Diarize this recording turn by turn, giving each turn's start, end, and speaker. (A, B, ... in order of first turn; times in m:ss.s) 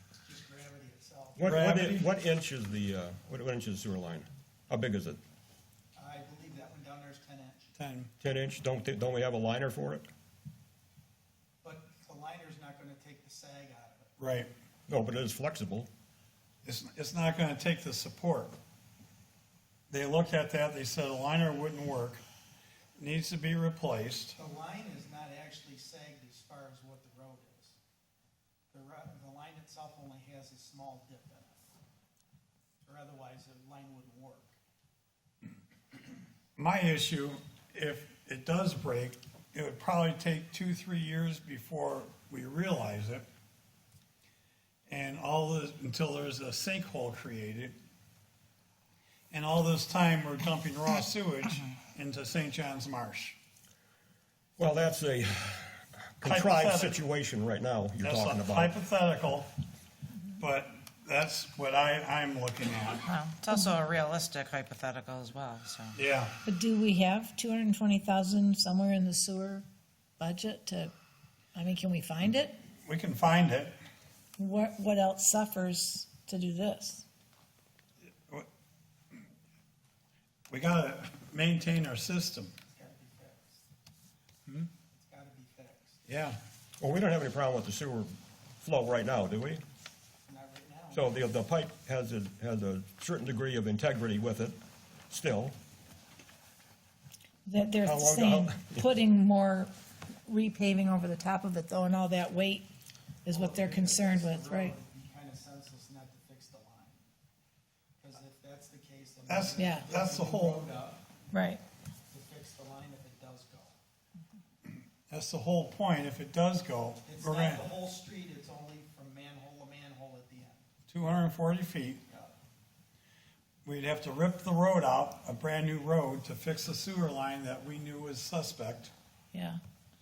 0:00.2-0:01.4 A
0:01.4-0:05.2 B
0:01.4-0:02.1 C
0:06.0-0:07.7 A
0:07.8-0:08.1 C
0:08.2-0:10.1 B
0:11.6-0:14.1 A
0:14.2-0:14.5 C
0:14.9-0:15.9 B
0:16.6-0:18.6 C
0:19.9-0:22.2 C
0:23.0-0:24.4 C
0:24.4-0:27.8 A
0:28.7-0:31.8 A
0:32.8-0:34.6 A
0:36.6-0:43.3 C
0:44.9-0:47.8 C
0:49.3-0:53.4 C
0:54.6-0:58.8 B
0:56.2-0:57.0 C
0:58.0-0:59.5 C
1:00.4-1:03.1 C
1:03.0-1:06.0 D
1:05.9-1:06.4 C
1:06.4-1:09.6 E
1:10.2-1:10.9 E
1:11.6-1:12.6 E
1:12.8-1:13.7 C
1:14.4-1:17.0 E
1:20.5-1:22.6 C
1:22.7-1:23.6 A
1:24.9-1:26.0 A
1:26.1-1:26.4 C
1:26.8-1:29.6 B
1:30.3-1:31.1 A
1:30.9-1:34.6 B
1:35.1-1:35.6 B
1:37.4-1:39.7 E
1:37.8-1:38.9 B
1:40.3-1:42.7 E
1:43.3-1:44.8 E
1:43.3-1:47.0 A
1:48.0-1:51.3 A
1:49.3-1:50.7 C
1:49.6-1:49.9 E
1:51.3-1:51.6 E
1:52.1-1:53.8 A
1:55.1-1:57.7 C
1:57.0-2:00.7 A
2:00.9-2:02.0 C
2:02.1-2:02.3 A
2:03.6-2:08.9 C
2:09.3-2:09.6 E